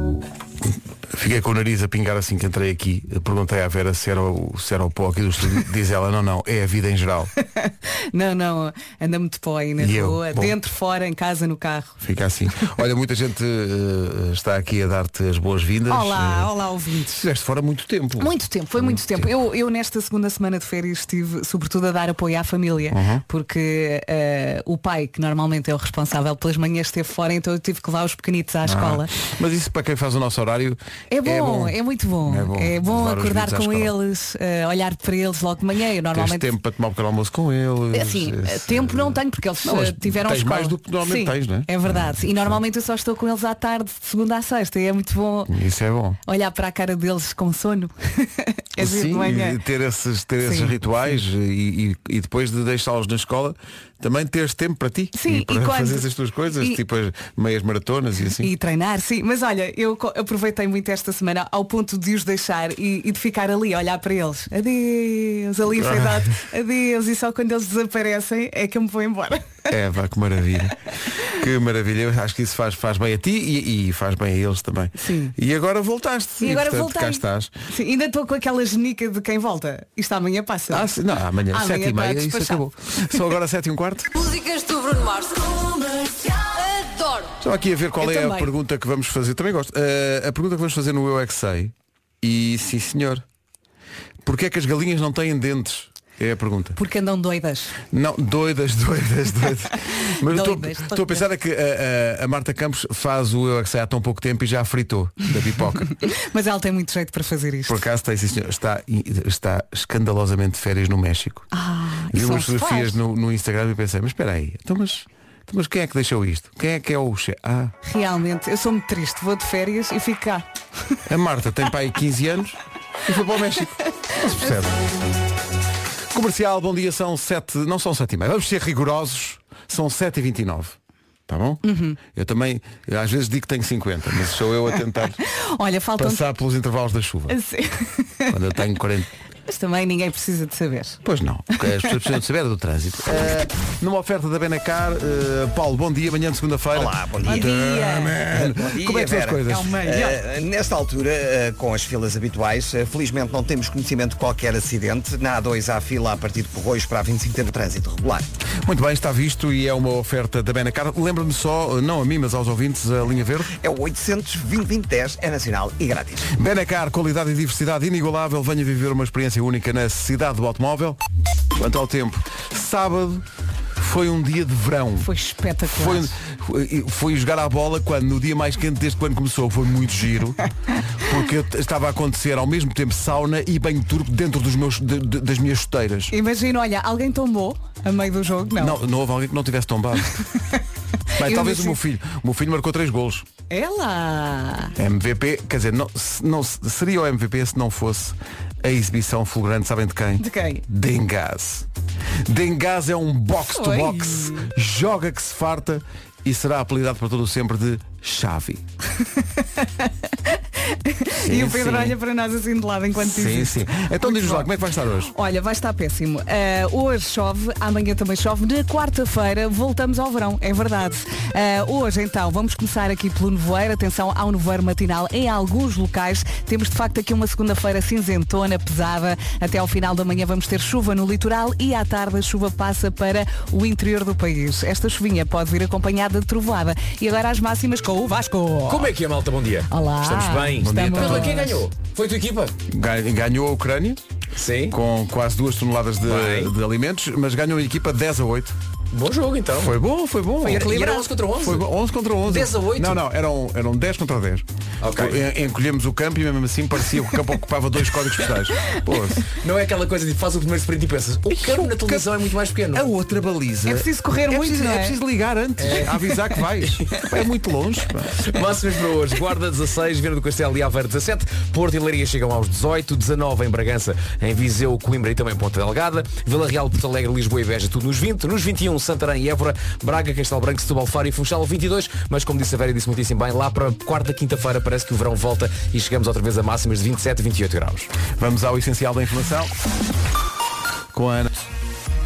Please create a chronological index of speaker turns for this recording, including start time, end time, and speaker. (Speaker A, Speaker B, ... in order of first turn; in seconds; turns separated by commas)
Speaker A: 1.1-7.3, Speaker B: 7.6-12.0, Speaker A: 9.8-10.5, Speaker A: 12.0-16.5, Speaker B: 15.9-17.2, Speaker A: 17.1-19.3, Speaker B: 18.2-29.1, Speaker A: 22.9-23.2, Speaker A: 28.6-34.0, Speaker B: 31.1-36.5, Speaker A: 36.1-42.6, Speaker B: 37.9-45.5, Speaker A: 45.5-46.2, Speaker B: 46.3-49.6, Speaker A: 48.8-58.5, Speaker B: 50.4-50.8, Speaker B: 55.1-56.1, Speaker B: 58.4-69.7, Speaker A: 65.7-66.3, Speaker A: 69.7-77.5, Speaker B: 75.0-75.3, Speaker B: 76.4-80.9, Speaker A: 80.7-84.1, Speaker B: 81.5-82.6, Speaker C: 84.2-87.3, Speaker A: 87.4-93.2, Speaker B: 88.0-88.5, Speaker A: 94.2-96.8, Speaker B: 96.8-97.8, Speaker A: 97.9-106.0, Speaker B: 100.1-101.2, Speaker B: 105.8-107.8, Speaker A: 107.7-111.5, Speaker B: 111.5-113.0, Speaker A: 112.1-117.7, Speaker B: 117.8-120.5, Speaker A: 121.1-124.8, Speaker A: 126.1-130.8, Speaker A: 131.3-135.2, Speaker B: 131.6-132.0, Speaker B: 135.3-136.2, Speaker A: 136.0-137.3, Speaker B: 137.3-138.3, Speaker A: 138.3-139.1, Speaker B: 139.5-141.0, Speaker A: 141.0-149.8, Speaker D: 146.7-147.5, Speaker B: 147.2-148.2, Speaker D: 148.3-158.3, Speaker B: 149.5-150.2, Speaker A: 158.6-163.5, Speaker D: 163.6-166.3, Speaker A: 166.3-171.0, Speaker A: 171.6-173.3, Speaker A: 173.8-175.1, Speaker B: 175.0-176.1, Speaker A: 175.7-186.1, Speaker B: 186.1-188.8, Speaker A: 188.6-190.2, Speaker B: 191.1-191.8, Speaker A: 191.2-193.3, Speaker B: 193.5-194.8, Speaker A: 194.8-201.7, Speaker B: 200.2-200.6, Speaker A: 202.2-208.6, Speaker B: 203.4-204.5, Speaker B: 209.6-214.5, Speaker A: 211.2-212.0, Speaker A: 213.0-215.1, Speaker B: 215.0-238.9, Speaker E: 238.7-242.6, Speaker B: 239.7-241.6, Speaker A: 240.6-241.4, Speaker A: 242.7-244.0, Speaker E: 244.3-244.8, Speaker A: 244.7-248.6, Speaker E: 246.1-246.5, Speaker E: 248.9-249.8, Speaker A: 249.6-250.8, Speaker E: 250.4-251.7, Speaker B: 250.5-251.1, Speaker A: 251.4-259.3, Speaker E: 252.2-253.0, Speaker E: 254.8-255.2, Speaker E: 259.4-262.9, Speaker A: 262.7-268.4, Speaker B: 263.7-265.0, Speaker E: 265.6-265.9, Speaker E: 268.2-287.9, Speaker A: 288.1-289.5, Speaker A: 290.9-291.4